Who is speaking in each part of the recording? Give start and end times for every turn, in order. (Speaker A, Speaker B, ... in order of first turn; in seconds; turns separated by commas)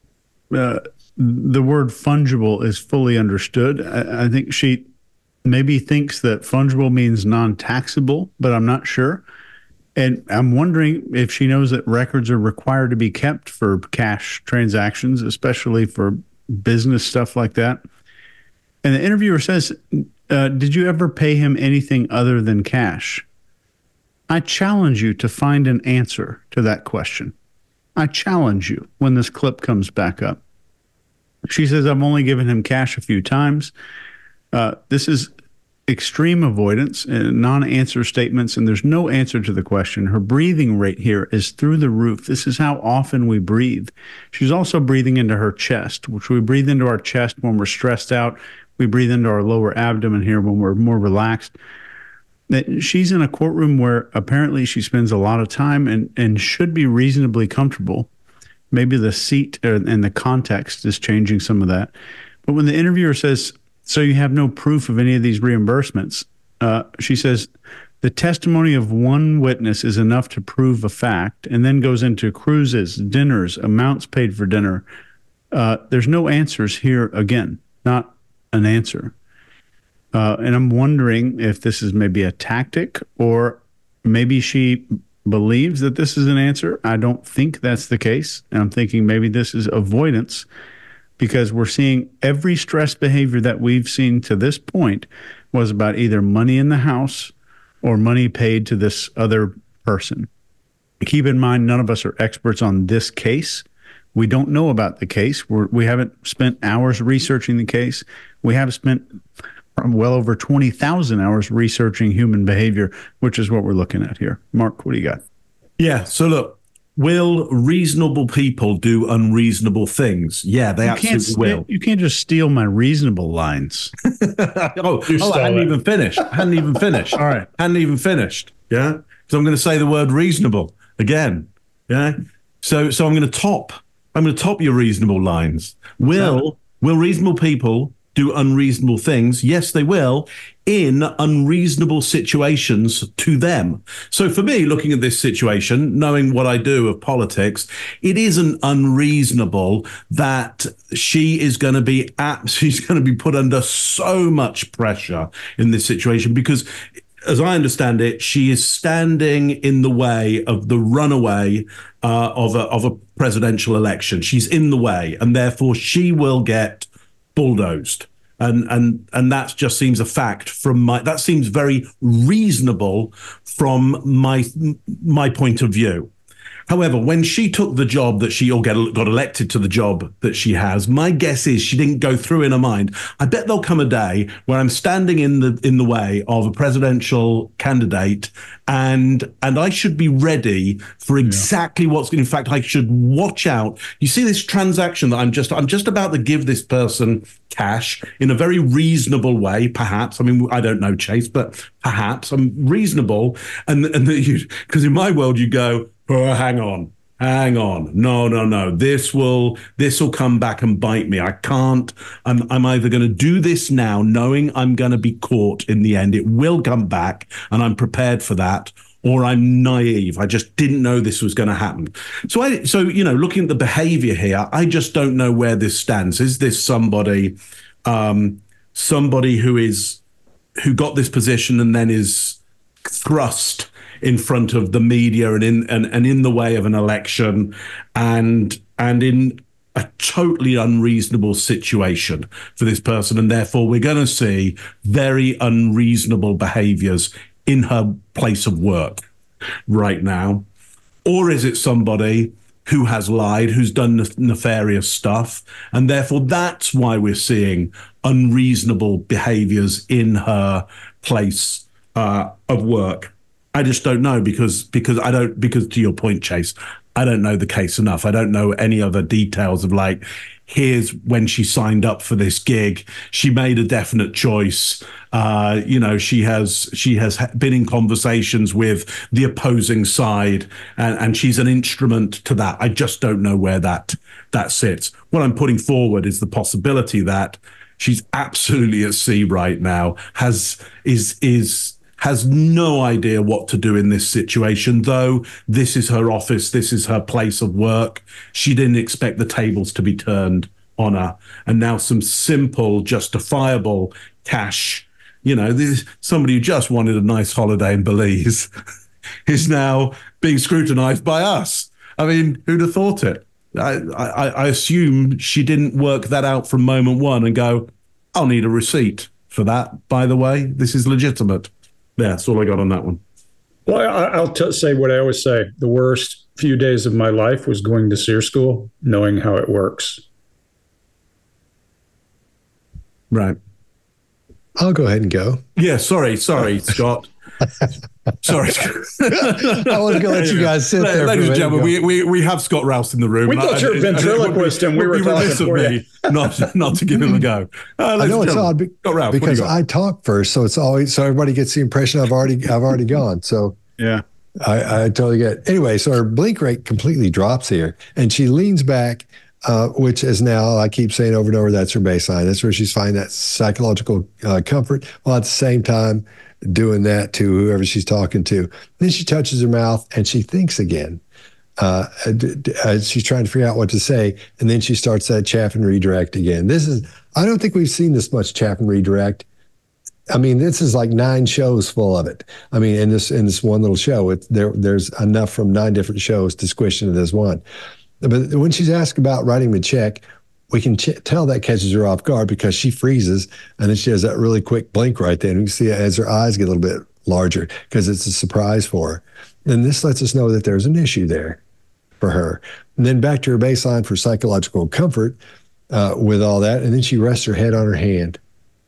Speaker A: 0.5-4.9, Speaker A: 5.4-9.2, Speaker A: 9.9-17.8, Speaker A: 18.8-23.2, Speaker A: 24.3-27.3, Speaker A: 27.9-30.4, Speaker A: 31.5-33.7, Speaker A: 34.5-35.3, Speaker A: 35.9-51.5, Speaker A: 52.5-58.1, Speaker A: 58.7-61.9, Speaker A: 62.5-67.5, Speaker A: 68.0-74.8, Speaker A: 75.5-79.1, Speaker A: 80.1-90.5, Speaker A: 91.2-100.3, Speaker A: 101.0-109.1, Speaker A: 109.8-115.2, Speaker B: 115.8-121.6, Speaker A: 120.8-123.9, Speaker B: 124.2-156.7, Speaker C: 125.1-125.7, Speaker A: 127.2-127.5, Speaker B: 157.2-176.1, Speaker B: 176.7-230.0, Speaker B: 230.6-249.0, Speaker B: 249.7-250.4, Speaker B: 251.0-308.5, Speaker B: 309.2-323.0, Speaker C: 323.7-330.0, Speaker B: 333.1-333.4, Speaker D: 334.6-335.4, Speaker B: 335.6-337.1, Speaker B: 338.2-349.5, Speaker D: 339.1-341.7, Speaker C: 343.2-345.9, Speaker D: 348.0-353.6, Speaker A: 353.8-354.0, Speaker D: 354.4-371.0, Speaker D: 371.6-379.2, Speaker D: 380.1-387.4, Speaker D: 388.0-401.4, Speaker D: 402.0-405.2, Speaker D: 405.7-408.2